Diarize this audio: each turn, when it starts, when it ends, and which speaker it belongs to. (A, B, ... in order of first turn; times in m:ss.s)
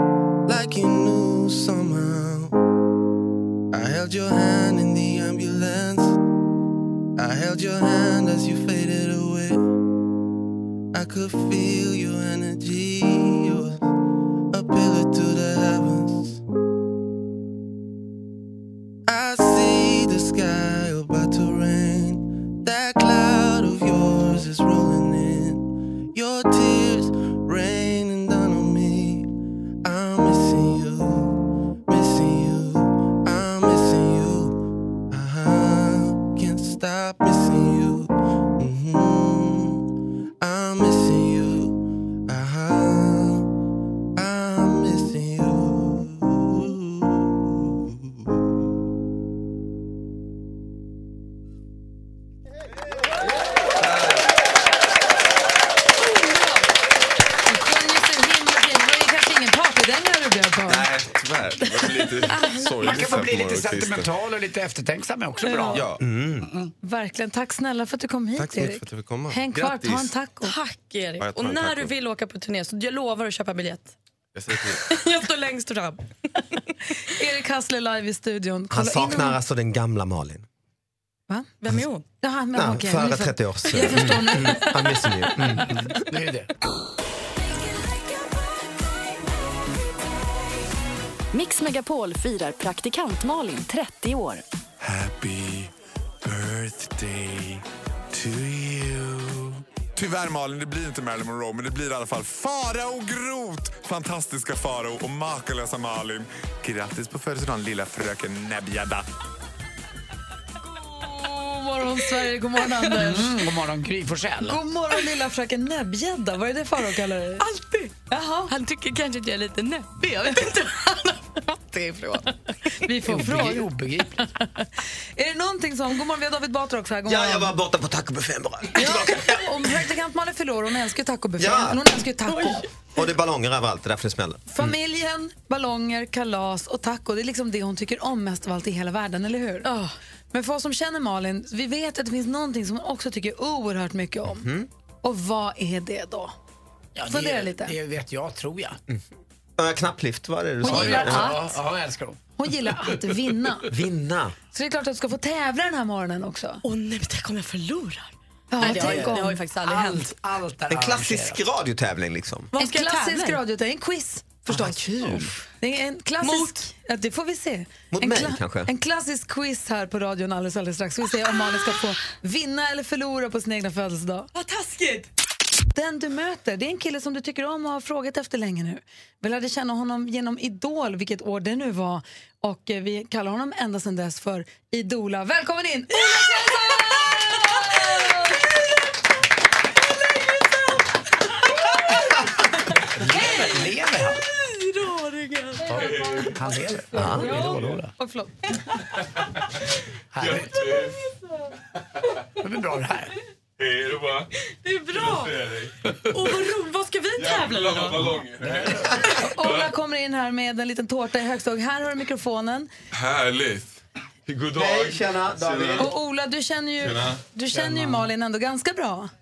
0:00.4-0:02.5 A
0:03.7-0:06.2 A
0:07.2-0:09.6 A
0:10.9-0:13.9 A
0:14.5-0:16.4 A
0:19.1-0:29.3 A
0:29.8-0:34.6 A
0:35.1-0:39.8 A
0:40.4-0:43.5 A
0:44.2-0:48.4 A
0:56.1-0:56.6 B
0:57.4-1:00.9 C
1:00.7-1:04.1 D
1:02.2-1:03.2 B
1:02.8-1:06.7 E
1:05.4-1:05.8 C
1:06.0-1:06.5 F
1:06.8-1:10.5 C
1:08.4-1:10.1 D
1:10.4-1:13.9 B
1:11.2-1:11.9 D
1:14.4-1:14.8 D
1:14.6-1:16.0 B
1:17.1-1:19.4 C
1:18.7-1:20.4 F
1:21.6-1:22.0 B
1:22.2-1:24.7 C
1:22.5-1:25.8 F
1:23.8-1:24.2 B
1:25.4-1:26.5 E
1:31.3-1:34.4 G
1:34.8-1:49.1 H
1:50.7-1:53.3 C
1:52.9-1:54.6 E
1:54.4-1:57.4 C
1:57.4-1:58.0 B
1:58.1-1:58.5 C
1:58.5-2:02.4 B
2:02.8-2:03.7 C
2:03.0-2:04.2 E
2:05.2-2:07.5 C
2:07.0-2:09.4 F
2:08.7-2:12.6 C
2:11.4-2:11.8 F
2:12.3-2:12.6 B
2:12.9-2:14.7 F
2:14.5-2:19.7 C
2:19.6-2:19.9 B
2:20.3-2:24.5 C
2:24.3-2:24.7 F
2:25.0-2:26.3 C
2:26.9-2:28.8 E
2:27.1-2:27.7 C
2:29.6-2:31.4 F
2:30.6-2:31.6 C
2:30.6-2:32.2 E
2:32.4-2:33.6 C
2:33.7-2:34.3 F
2:34.5-2:36.6 C
2:36.6-2:40.1 B
2:38.5-2:39.4 C
2:38.6-2:41.4 E
2:40.7-2:42.5 F
2:42.5-2:43.4 B
2:42.6-2:44.7 C
2:44.5-2:45.3 F
2:45.0-2:45.3 B
2:45.6-2:54.3 C
2:46.2-2:46.6 B
2:47.9-2:48.7 F
2:54.3-2:55.1 B
2:55.7-3:08.4 C
3:06.0-3:08.7 B
3:09.8-3:10.8 B
3:11.9-3:12.2 B
3:12.9-3:14.2 E
3:13.1-3:16.2 B
3:15.7-3:17.9 E
3:15.8-3:16.3 I
3:16.9-3:18.5 C
3:16.9-3:17.4 F
3:20.1-3:20.5 E
3:20.2-3:21.0 I
3:20.6-3:20.9 B
3:22.4-3:23.1 E
3:23.6-3:24.3 I
3:24.6-3:25.3 B
3:24.9-3:25.7 I
3:26.1-3:28.1 B
3:27.2-3:29.7 I
3:28.4-3:29.0 E
3:29.2-3:32.7 C
3:32.9-3:35.9 I
3:34.5-3:35.9 F
3:35.8-3:39.1 C
3:36.8-3:37.2 I
3:37.5-3:38.1 E